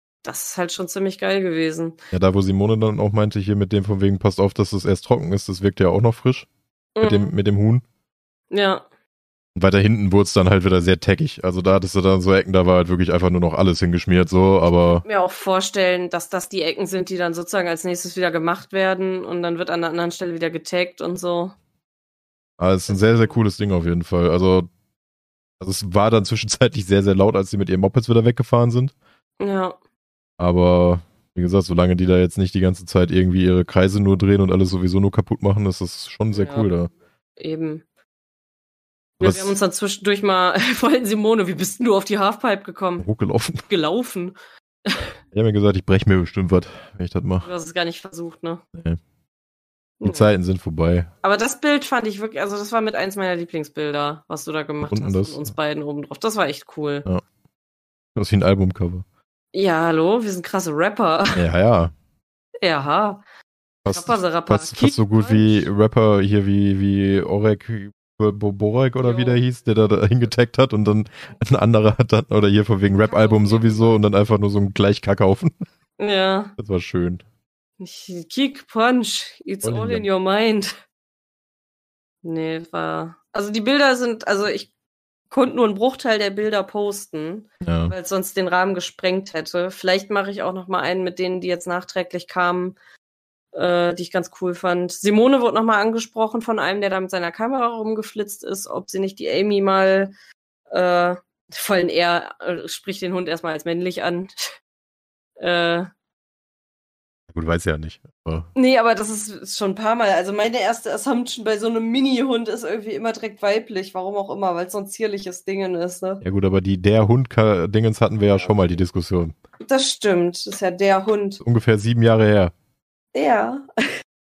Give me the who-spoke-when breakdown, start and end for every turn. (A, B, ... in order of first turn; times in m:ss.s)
0:00.2-0:02.0 A
0:02.1-0:06.5 B
0:07.0-0:07.4 A
0:07.0-0:07.8 B
0:08.5-0:08.8 A
0:09.6-0:15.0 B
0:14.8-0:21.5 A
0:22.6-0:24.7 B
0:22.9-0:23.4 A
0:25.6-0:28.9 B
0:29.4-0:29.8 A
0:30.4-0:36.9 B
0:36.3-0:36.7 A
0:37.4-0:37.8 A
0:39.2-0:43.1 A
0:39.2-0:39.6 B
0:43.0-0:43.6 B
0:43.7-0:44.4 A
0:44.9-0:45.1 A
0:45.3-0:47.5 B
0:47.4-0:48.6 A
0:50.0-0:50.3 A
0:50.0-0:51.1 B
0:51.2-0:57.1 A
0:54.9-0:55.4 B
0:58.2-0:59.0 B
0:59.5-1:01.4 A
1:01.4-1:01.9 B
1:02.6-1:03.2 A
1:03.8-1:15.5 B
1:03.9-1:05.7 A
1:09.0-1:09.4 A
1:13.0-1:14.0 A
1:16.0-1:16.6 A
1:16.6-1:17.2 B
1:17.8-1:20.7 A
1:19.6-1:20.0 B
1:22.2-1:24.7 A
1:25.3-1:32.8 A
1:27.6-1:27.9 B
1:33.5-1:40.1 A
1:40.7-1:44.3 A
1:45.4-1:45.9 A
1:47.3-1:48.5 B
1:48.6-1:56.2 A
1:56.2-1:59.3 B
1:59.6-2:01.4 A
2:01.4-2:02.5 B
2:03.1-2:03.7 A